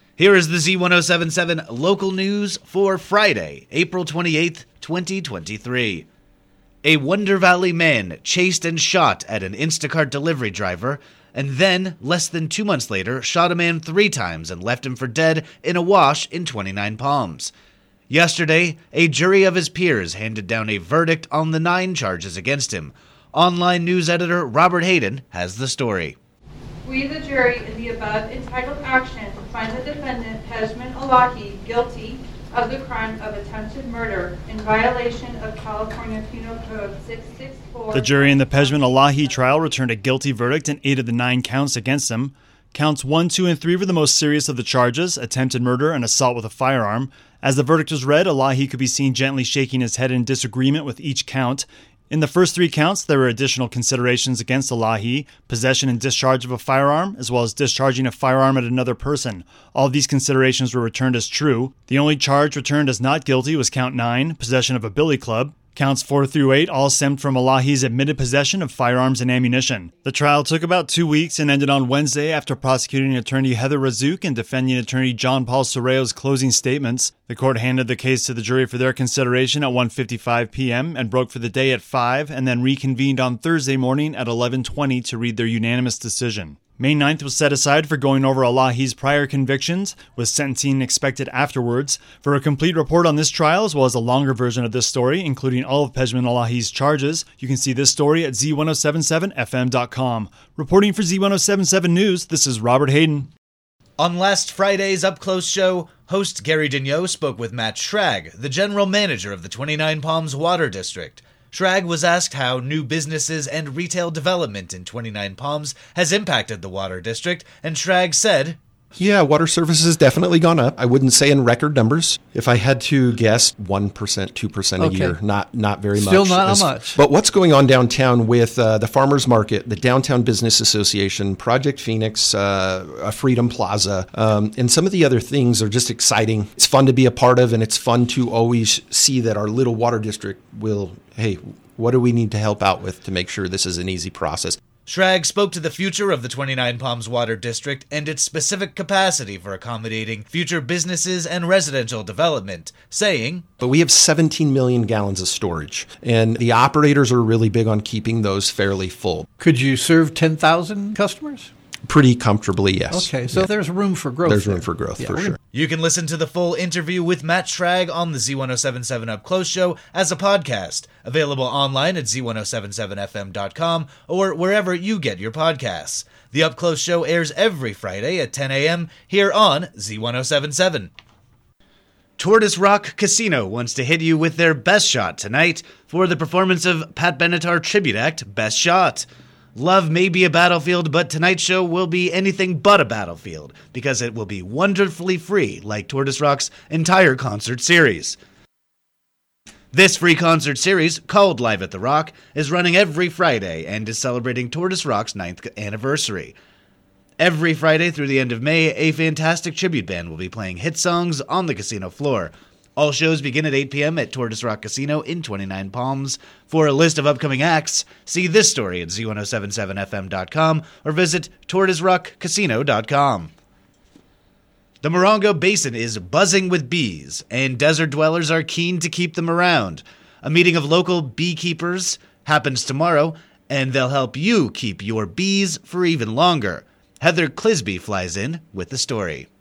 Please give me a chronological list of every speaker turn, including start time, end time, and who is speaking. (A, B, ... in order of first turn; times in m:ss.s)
0:00.2-0:06.1 A
0:06.8-0:17.5 A
0:18.1-0:26.2 A
0:26.8-0:39.2 B
0:37.9-1:43.3 C
1:44.0-1:58.6 A
1:59.0-2:24.6 D
2:06.0-2:06.9 E
2:24.8-2:33.5 A
2:33.6-2:39.3 D
2:39.4-2:41.5 E
2:41.8-2:43.5 D
2:43.0-2:44.4 E
2:44.2-2:45.4 D
2:45.5-3:00.9 A
3:02.2-3:18.2 A
3:19.7-3:26.3 A
3:27.2-3:43.3 A
3:44.8-3:59.3 A